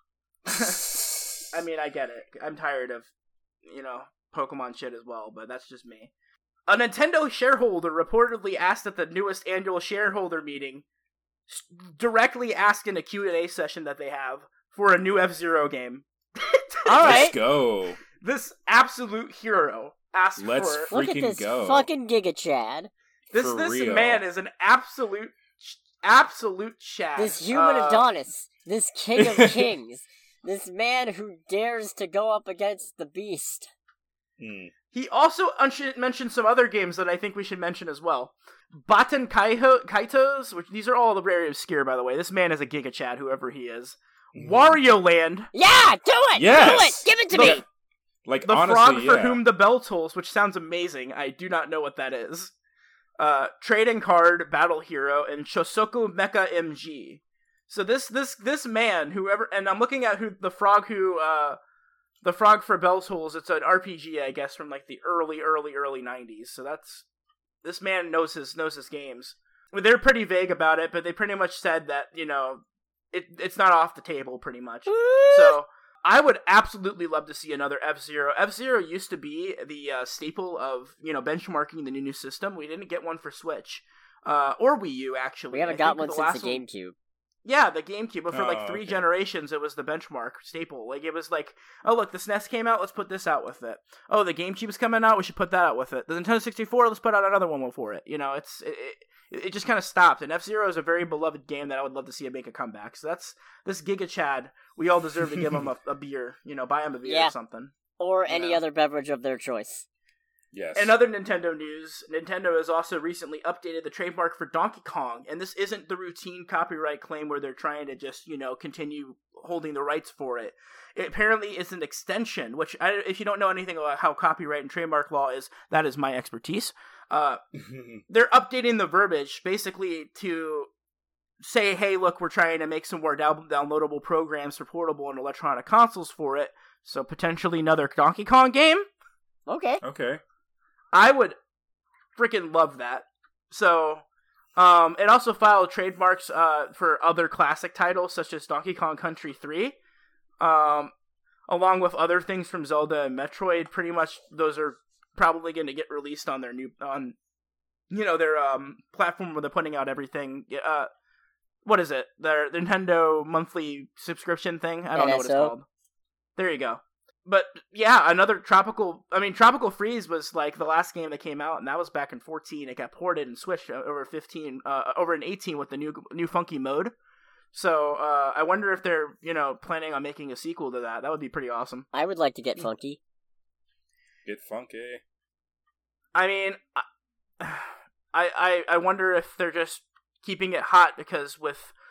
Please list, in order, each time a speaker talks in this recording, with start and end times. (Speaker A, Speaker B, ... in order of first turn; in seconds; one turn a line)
Speaker A: 0.5-3.1
Speaker A: 3.6-6.1
Speaker A: 6.7-10.8
Speaker A: 11.5-17.2
Speaker B: 16.8-17.4
Speaker C: 17.0-18.0
Speaker A: 18.2-20.9
Speaker C: 20.4-21.9
Speaker B: 20.9-22.9
Speaker A: 23.3-28.1
Speaker C: 23.3-24.2
Speaker B: 27.2-33.7
Speaker C: 29.1-29.7
Speaker C: 34.4-34.7
Speaker A: 34.9-45.5
Speaker C: 44.3-44.8
Speaker B: 45.5-47.6
Speaker C: 46.3-47.6
Speaker A: 47.3-47.6
Speaker C: 48.2-49.4
Speaker A: 48.4-52.5
Speaker A: 53.2-61.6
Speaker A: 62.2-67.0
Speaker A: 67.6-86.6
Speaker B: 74.9-75.6
Speaker B: 85.5-86.9
Speaker A: 87.4-107.7
Speaker C: 88.3-89.0
Speaker B: 107.0-107.3
Speaker B: 108.0-109.8
Speaker A: 108.3-108.6
Speaker C: 110.5-111.0
Speaker A: 110.8-127.4
Speaker C: 127.5-128.0
Speaker A: 128.1-130.7
Speaker A: 131.4-138.9
Speaker B: 139.5-139.8
Speaker C: 139.8-140.2
Speaker A: 140.9-141.3
Speaker A: 142.2-144.0
Speaker A: 144.6-149.7
Speaker A: 150.4-150.9
Speaker A: 151.5-157.2
Speaker A: 157.9-160.9
Speaker A: 161.6-165.6
Speaker B: 164.9-165.5
Speaker A: 166.4-176.9
Speaker A: 177.5-181.9
Speaker B: 181.9-183.0
Speaker C: 184.2-185.0
Speaker A: 186.1-186.8
Speaker A: 187.4-191.7